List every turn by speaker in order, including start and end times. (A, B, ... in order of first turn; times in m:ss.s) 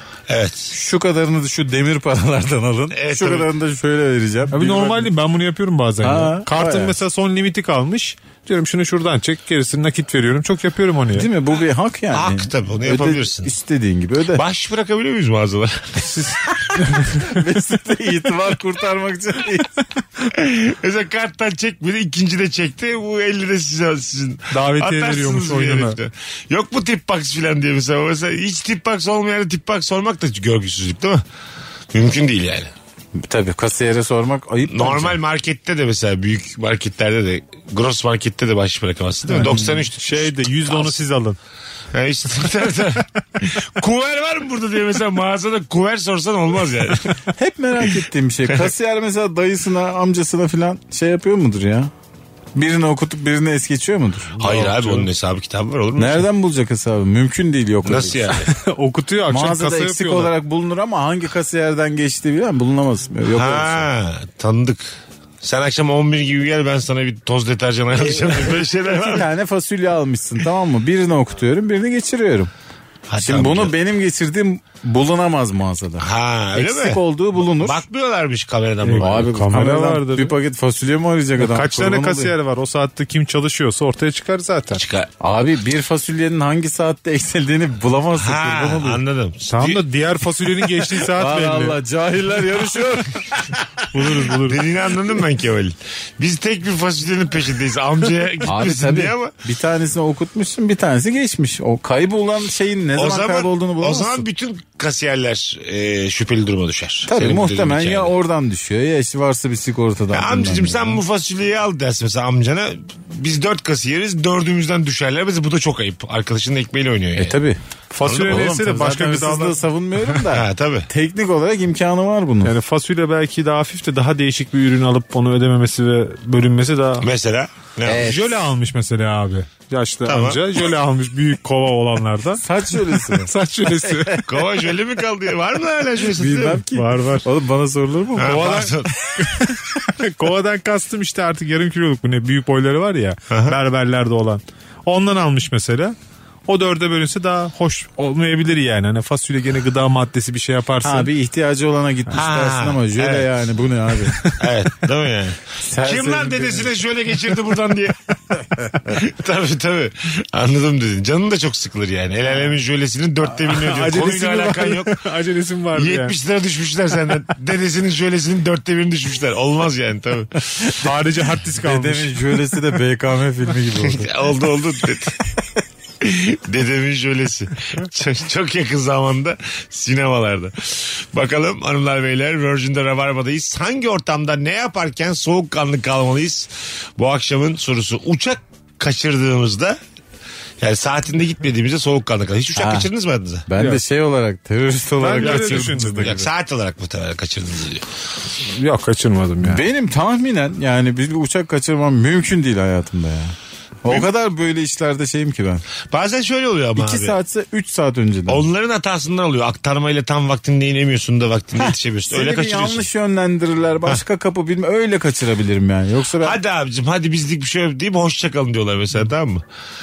0:00.3-0:00.7 A
0:00.7-0:05.1 B
0:02.9-0:03.5 A
0:04.5-0:11.3 C
0:06.0-0:07.0 B
0:11.2-0:14.4 B
0:12.1-0:13.5 A
0:14.4-0:16.4 A
0:16.1-0:17.1 C
0:17.1-0:19.8 B
0:20.3-0:31.2 A
0:24.5-0:26.0 C
0:31.9-0:32.7 A
0:33.2-0:35.2 B
0:34.7-0:41.0 A
0:39.3-0:39.8 B
0:39.4-0:41.4 C
0:41.9-0:47.2 A
0:47.4-0:51.9 B
0:52.6-0:55.0 B
0:54.4-0:56.3 A
0:54.6-0:54.9 C
0:56.0-0:58.3 B
0:57.8-0:58.5 A
0:58.3-1:00.3 C
0:59.3-1:03.9 B
1:03.3-1:04.9 A
1:05.4-1:09.3 A
1:08.2-1:12.5 B
1:13.1-1:13.7 A
1:13.2-1:17.8 B
1:16.0-1:19.3 A
1:18.8-1:20.4 C
1:19.0-1:22.4 B
1:21.4-1:24.8 C
1:24.8-1:25.1 A
1:25.2-1:29.0 B
1:28.2-1:29.8 A
1:29.5-1:31.8 C
1:31.1-1:33.6 B
1:33.9-1:34.6 C
1:34.4-1:39.3 A
1:38.5-1:44.2 B
1:43.0-1:48.1 A
1:47.1-1:51.0 B
1:50.1-1:57.4 A
1:57.2-1:57.6 B
1:57.9-2:00.2 C
1:58.0-1:58.4 A
1:58.1-2:02.5 B
2:00.3-2:00.9 A
2:02.4-2:07.1 C
2:07.0-2:08.3 A
2:07.9-2:08.2 B
2:08.0-2:14.2 C
2:10.1-2:10.4 A
2:12.4-2:13.3 B
2:13.9-2:14.2 B
2:14.3-2:16.6 A
2:16.2-2:18.5 B
2:16.7-2:17.3 C
2:18.2-2:18.9 A
2:18.2-2:26.0 C
2:23.3-2:23.6 A
2:26.5-2:31.1 C
2:30.8-2:34.4 B
2:32.1-2:33.3 A
2:34.2-2:38.0 A
2:35.6-2:36.7 B
2:38.9-2:45.0 A
2:43.4-2:46.2 C
2:45.8-2:50.8 A
2:50.8-2:52.6 C
2:51.6-2:54.1 B
2:53.9-2:55.2 A
2:56.0-3:09.8 A
3:10.6-3:13.5 A
3:12.6-3:12.9 B
3:13.5-3:16.2 B
3:15.0-3:16.3 C
3:15.2-3:17.9 A
3:18.4-3:19.6 C
3:19.4-3:25.6 B
3:25.9-3:27.2 A
3:26.8-3:28.4 B
3:28.3-3:32.9 A
3:31.6-3:36.4 B
3:36.2-3:39.4 A